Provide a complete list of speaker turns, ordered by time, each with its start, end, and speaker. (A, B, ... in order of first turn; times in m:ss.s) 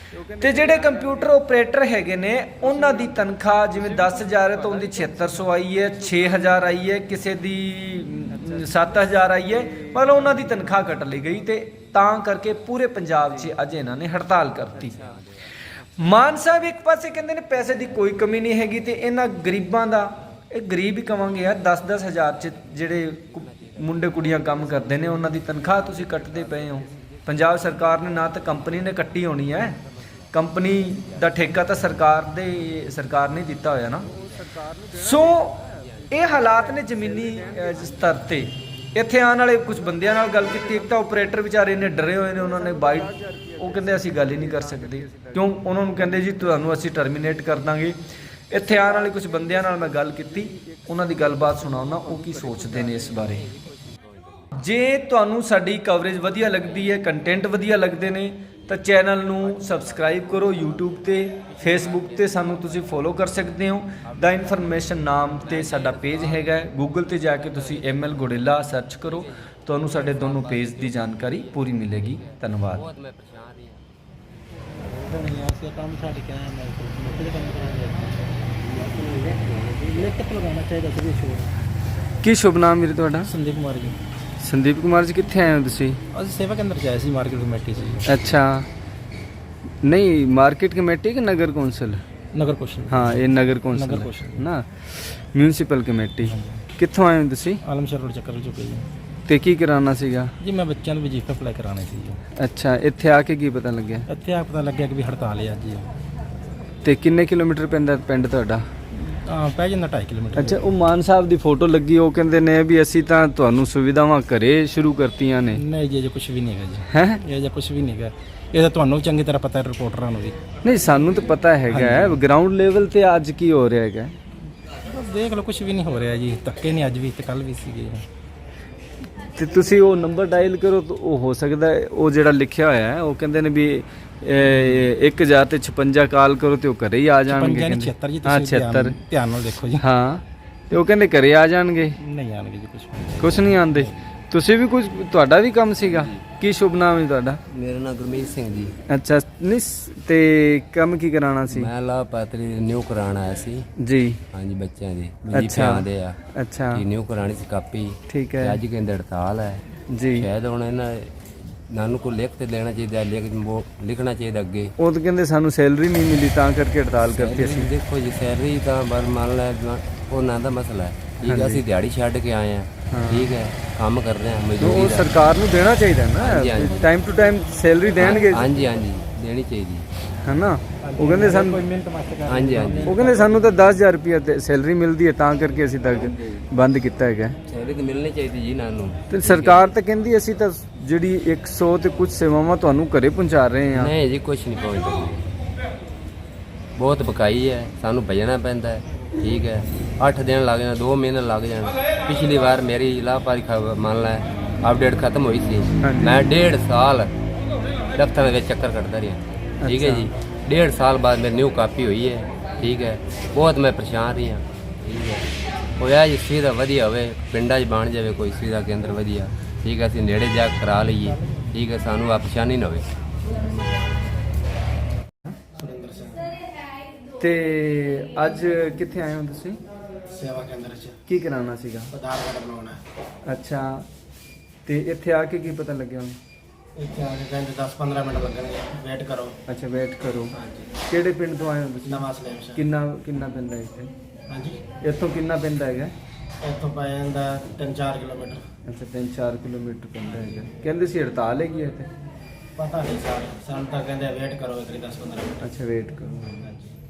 0:00.1-0:01.6 A
0:00.4-0:15.0 B
0:02.4-0:07.3 A
0:08.2-0:11.4 A
0:14.7-0:16.4 C
0:16.0-0:29.8 B
0:22.3-0:32.3 C
0:30.3-0:34.1 B
0:34.0-0:34.9 C
0:34.4-0:35.6 A
0:34.9-0:48.0 B
0:35.6-0:36.4 C
0:36.4-0:38.3 A
0:37.0-0:38.2 C
0:39.7-0:41.2 A
0:41.9-0:45.6 A
0:46.1-0:46.4 A
0:48.5-0:53.5 B
0:48.6-0:53.1 A
0:52.9-0:54.5 C
0:54.5-1:12.9 B
0:59.4-1:03.2 C
1:04.0-1:08.5 C
1:09.0-1:13.8 C
1:14.8-1:18.3 A
1:18.6-1:20.2 C
1:19.8-1:21.5 A
1:22.2-1:23.3 B
1:23.2-1:24.0 A
1:24.4-1:26.0 B
1:26.1-1:28.2 A
1:28.0-1:28.7 B
1:29.8-1:32.0 B
1:32.3-1:34.5 A
1:32.9-1:37.6 B
1:36.2-1:36.6 A
1:37.6-1:38.9 A
1:39.3-1:40.3 B
1:40.4-1:42.2 A
1:42.4-1:44.1 B
1:44.1-1:45.9 A
1:46.8-1:48.6 B
1:48.9-1:50.6 A
1:50.3-1:55.6 B
1:55.5-2:00.4 A
1:56.9-1:57.2 B
2:00.6-2:04.1 B
2:01.7-2:02.2 A
2:04.8-2:08.0 A
2:09.2-2:19.0 B
2:14.4-2:14.9 A
2:17.2-2:19.9 A
2:19.8-2:22.0 B
2:22.0-2:24.0 A
2:23.2-2:27.4 B
2:25.8-2:26.1 C
2:27.5-2:28.7 C
2:28.9-2:31.7 B
2:31.5-2:33.7 C
2:33.8-2:34.2 B
2:34.3-2:36.2 C
2:35.3-2:36.8 B
2:36.7-2:44.7 C
2:38.1-2:38.6 B
2:39.9-2:40.3 B
2:44.8-2:47.7 B
2:47.0-2:55.1 C
2:51.3-2:51.6 B
2:52.9-2:53.3 B
2:54.6-2:58.5 B
2:56.2-2:56.9 C
2:58.0-2:59.8 C
3:00.2-3:01.6 B
3:00.8-3:03.8 A
3:02.2-3:02.9 C
3:02.8-3:07.4 B
3:06.0-3:06.4 C
3:07.4-3:09.7 C
3:09.1-3:13.9 B
3:13.7-3:15.3 C
3:16.8-3:27.1 C
3:25.8-3:26.3 B
3:27.9-3:35.3 C
3:29.6-3:30.1 B
3:35.8-3:42.9 C
3:45.6-3:46.3 D
3:47.2-3:49.6 B
3:50.1-3:51.0 D
3:51.1-3:51.9 B
3:51.9-3:52.8 D
3:53.3-3:53.8 B
3:54.6-3:56.2 B
3:56.8-3:59.3 D
3:59.5-4:00.3 B
4:00.3-4:00.7 D
4:00.9-4:03.9 B
4:01.8-4:02.6 D
4:04.3-4:04.6 D
4:04.8-4:05.9 B
4:06.4-4:08.4 D
4:08.7-4:11.9 B
4:12.6-4:15.4 D
4:15.4-4:16.4 B